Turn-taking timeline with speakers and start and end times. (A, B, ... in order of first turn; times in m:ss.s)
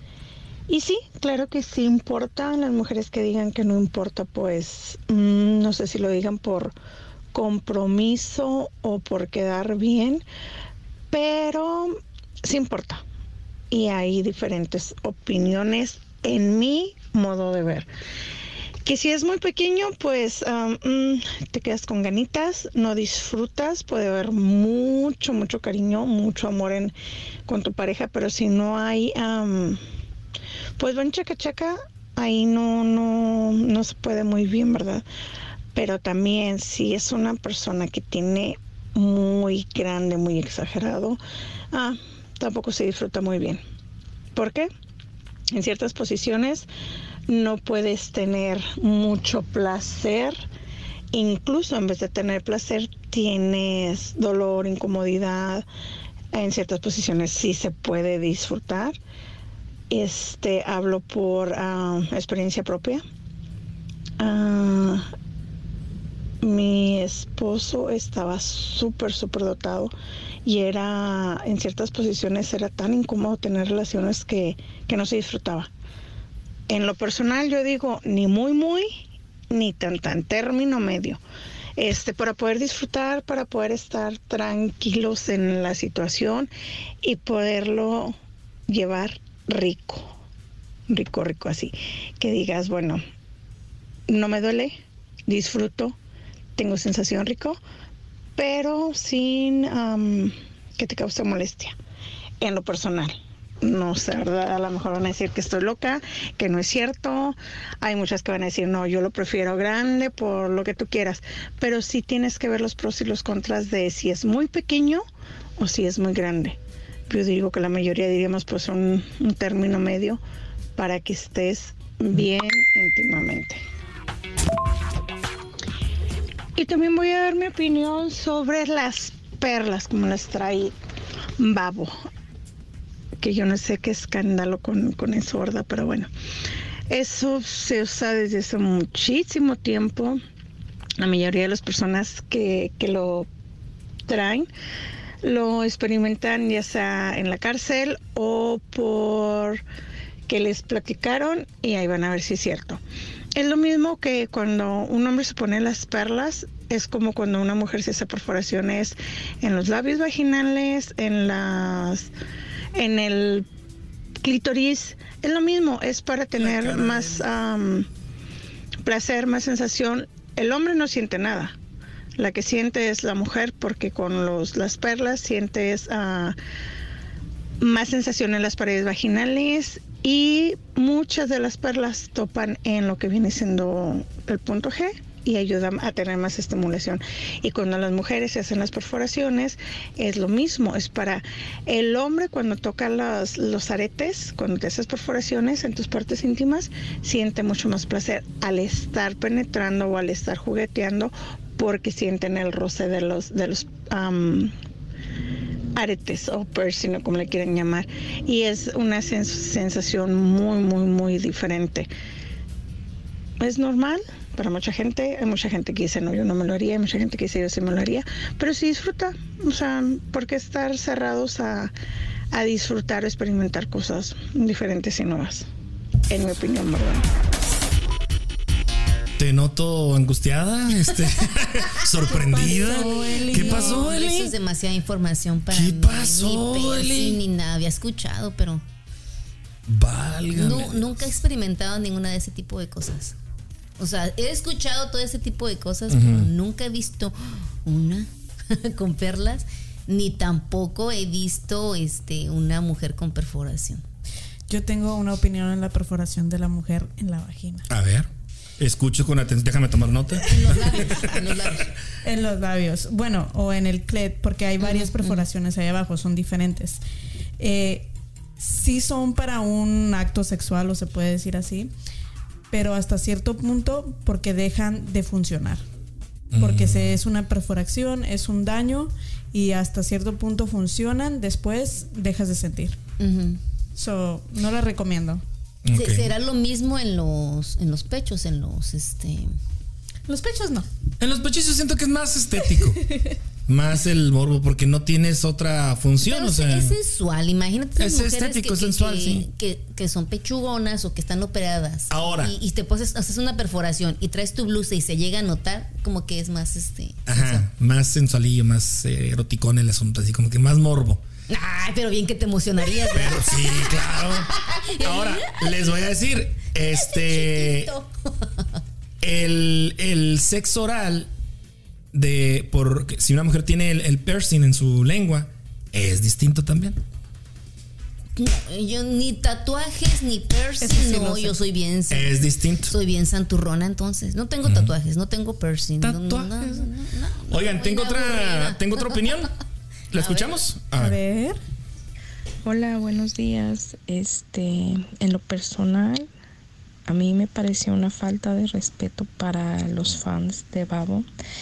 0:00.7-0:06.8 A
0:07.3-0:10.2 A
0:11.1-0:13.0 A
0:13.7-0:17.9 A
0:18.8-0:26.9 A
0:27.5-0:29.8 A
0:30.8-0:35.1 A
0:35.8-0:41.2 A
0:41.7-0:43.6 A
0:44.3-0:44.7 A
0:45.5-0:46.7 A
0:47.3-0:50.4 A
0:51.1-0:55.7 A
0:56.3-0:59.0 A
0:59.9-1:03.0 A
1:04.2-1:05.1 A
1:06.4-1:09.9 A
1:10.4-1:15.7 A
1:16.7-1:19.0 A
1:19.5-1:21.2 A
1:21.8-1:26.5 A
1:27.0-1:28.2 A
1:28.7-1:30.2 A
1:30.9-1:33.0 A
1:34.1-1:36.0 A
1:36.6-1:37.6 A
1:38.4-1:41.8 A
1:42.4-1:55.0 A
1:55.6-2:00.2 A
2:00.8-2:03.6 A
2:06.6-2:10.7 A
2:11.4-2:12.0 A
2:13.2-2:16.1 A
2:16.9-2:20.2 A
2:21.0-2:23.3 A
2:24.1-2:24.5 A
2:25.2-2:29.6 A
2:30.3-2:32.8 A
2:33.4-2:42.1 A
2:42.8-2:43.5 A
2:44.2-2:47.9 A
2:46.4-2:47.2 B
2:48.8-2:51.6 A
2:52.2-2:56.4 A
2:57.6-3:24.5 A
3:25.8-3:31.9 A
3:33.4-3:41.7 A
3:42.3-3:45.5 A
3:46.1-3:47.1 A
3:49.2-3:54.3 B
3:52.1-3:53.9 C
3:52.6-3:58.6 D
3:55.5-3:57.2 B
3:59.7-4:00.9 B
4:00.3-4:03.2 D
4:03.8-4:13.8 D
4:05.9-4:06.3 B
4:14.5-4:17.7 C
4:17.7-4:21.5 B
4:20.3-4:21.7 D
4:22.0-4:26.8 C
4:24.6-4:25.2 D
4:27.4-4:31.7 C
4:32.5-4:35.6 C
4:36.3-4:37.0 B
4:36.4-4:42.8 C
4:43.0-4:43.4 D
4:43.8-4:45.2 C
4:45.6-4:46.1 B
4:45.7-4:49.3 D
4:50.1-4:50.7 C
4:51.0-4:52.8 B
4:53.5-4:56.8 B
4:56.0-5:07.5 D
4:57.8-4:59.3 B
5:01.9-5:02.3 B
5:07.1-5:11.0 B
5:11.3-5:15.7 D
5:12.9-5:17.7 B
5:16.6-5:18.5 D
5:19.0-5:21.1 B
5:21.9-5:26.8 B
5:28.2-5:39.2 D
5:30.6-5:31.3 C
5:31.9-5:32.7 B
5:34.4-5:34.7 B
5:35.8-5:36.7 B
5:37.3-5:39.3 B
5:39.9-5:41.0 B
5:39.9-5:40.4 D
5:40.8-5:41.4 C
5:42.4-5:46.1 E
5:46.9-5:51.1 E